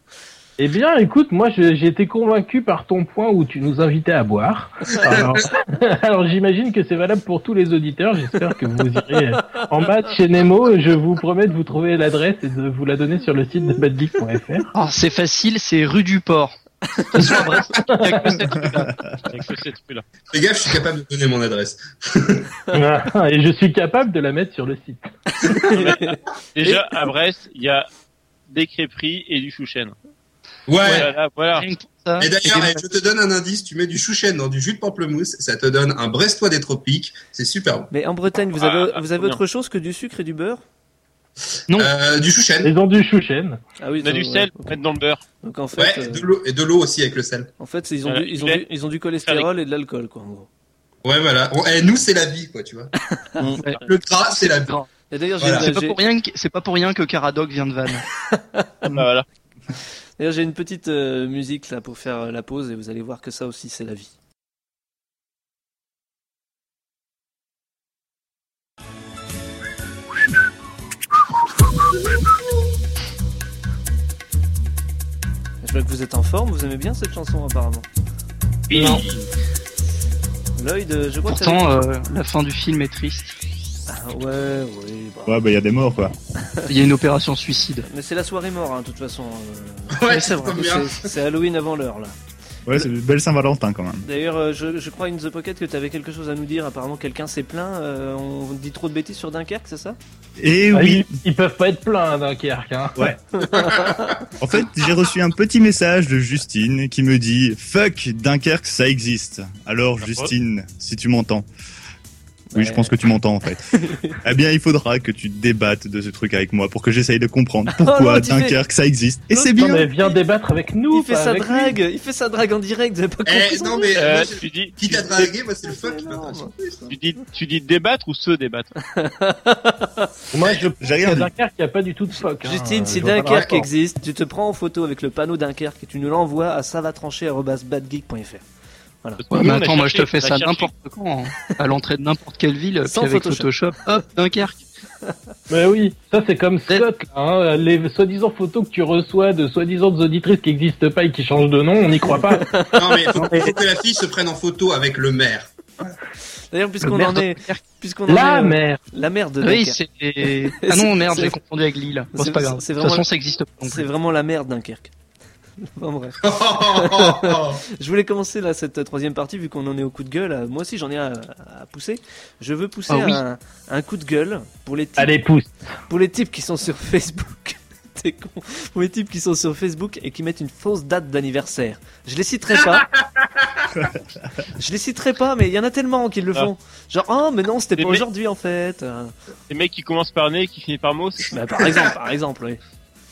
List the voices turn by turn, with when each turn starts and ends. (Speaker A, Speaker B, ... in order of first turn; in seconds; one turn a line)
Speaker A: 0.6-14.7
Speaker B: 9.4-9.6
Speaker C: 14.7-16.6
Speaker C: 17.1-18.9
Speaker A: 17.9-18.2
Speaker D: 18.2-20.0
Speaker E: 20.3-22.5
Speaker A: 22.7-25.1
Speaker B: 25.3-26.8
Speaker D: 25.7-26.0
Speaker D: 26.6-27.9
Speaker D: 28.5-29.9
Speaker E: 30.7-31.1
Speaker C: 30.8-32.8
Speaker D: 30.9-31.6
Speaker E: 32.2-37.9
Speaker B: 37.9-40.6
Speaker D: 38.6-39.4
Speaker E: 41.7-42.7
Speaker A: 42.6-43.6
Speaker B: 43.8-44.8
Speaker D: 44.0-45.2
Speaker B: 45.4-46.3
Speaker E: 45.8-47.5
Speaker B: 47.6-50.5
Speaker D: 48.0-48.6
Speaker E: 51.0-52.9
Speaker E: 53.8-54.8
Speaker C: 54.4-54.9
Speaker B: 55.1-56.0
Speaker E: 55.4-55.7
Speaker C: 55.5-58.0
Speaker D: 58.9-59.2
Speaker B: 60.2-64.1
Speaker B: 75.6-77.9
Speaker C: 78.7-79.0
Speaker B: 80.5-81.8
Speaker C: 81.3-83.3
Speaker B: 83.9-85.3
Speaker F: 85.3-86.1
Speaker C: 86.7-87.8
Speaker B: 87.8-92.2
Speaker E: 89.9-91.1
Speaker F: 92.7-94.0
Speaker B: 94.0-100.0
Speaker F: 100.4-101.2
Speaker A: 100.7-103.1
Speaker B: 103.4-104.2
Speaker E: 103.5-103.9
Speaker F: 104.4-111.5
Speaker D: 110.0-110.3
Speaker B: 112.5-113.0
Speaker F: 112.5-119.9
Speaker B: 113.8-114.2
Speaker B: 117.8-118.6
Speaker B: 119.3-120.2
Speaker A: 119.5-121.8
Speaker B: 120.9-124.0
Speaker E: 123.2-126.9
Speaker D: 123.9-125.3
Speaker B: 125.7-126.5
Speaker D: 126.9-128.7
Speaker B: 128.9-130.1
Speaker A: 130.3-133.7
Speaker F: 130.8-131.3
Speaker B: 132.4-138.4
Speaker E: 133.3-133.6
Speaker D: 139.2-140.7
Speaker C: 139.3-144.6
Speaker B: 142.8-143.5
Speaker A: 145.5-152.4
Speaker B: 152.3-153.5
Speaker E: 152.7-155.9
Speaker B: 156.5-161.4
Speaker C: 156.8-157.6
Speaker A: 158.1-158.8
Speaker C: 159.4-163.9
Speaker B: 162.1-163.1
Speaker B: 163.6-164.9
Speaker B: 165.6-175.2
Speaker E: 166.2-167.6
Speaker C: 172.9-173.2
Speaker A: 175.0-175.5
Speaker B: 175.9-182.9
Speaker E: 182.7-183.7
Speaker B: 184.6-189.1
Speaker D: 187.8-188.0
Speaker D: 189.5-191.4
Speaker B: 191.3-192.6